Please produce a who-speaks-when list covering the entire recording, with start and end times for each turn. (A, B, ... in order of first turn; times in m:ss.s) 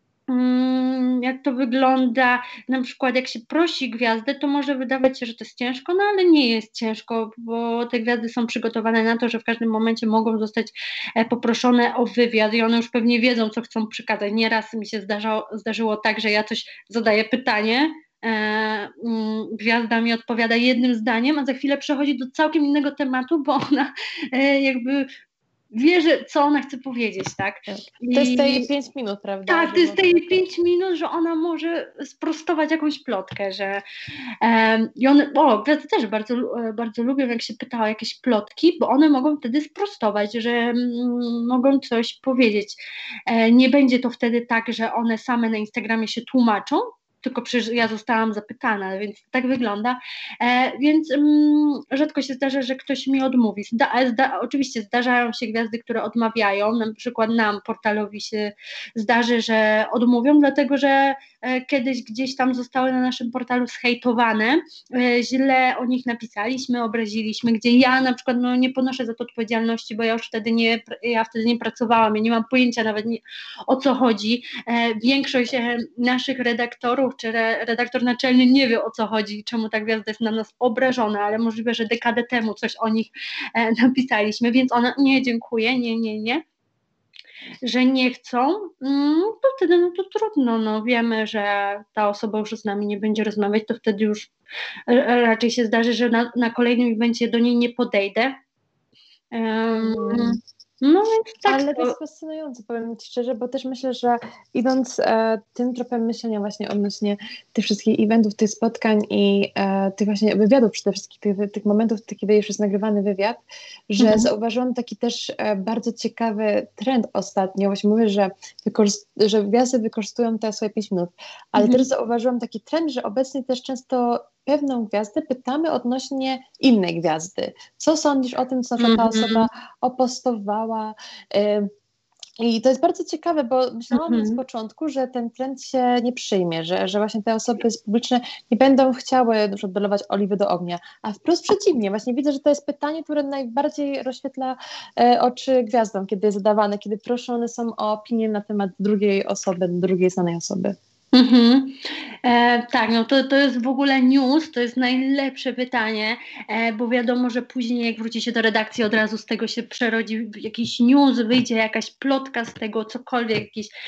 0:00.3-0:25.1 A
0:25.7-0:28.7 A
0:27.7-0:30.4 B
0:29.5-0:33.8 A
0:34.4-1:26.4 A
1:27.6-1:34.3 A
1:34.9-1:38.3 A
1:39.3-1:42.0 A
1:39.8-1:40.4 B
1:41.4-2:11.7 B
1:54.0-1:54.3 A
2:01.6-2:01.8 A
2:08.8-2:09.5 A
2:12.4-2:30.8 B
2:13.9-2:14.4 A
2:31.1-2:43.7 A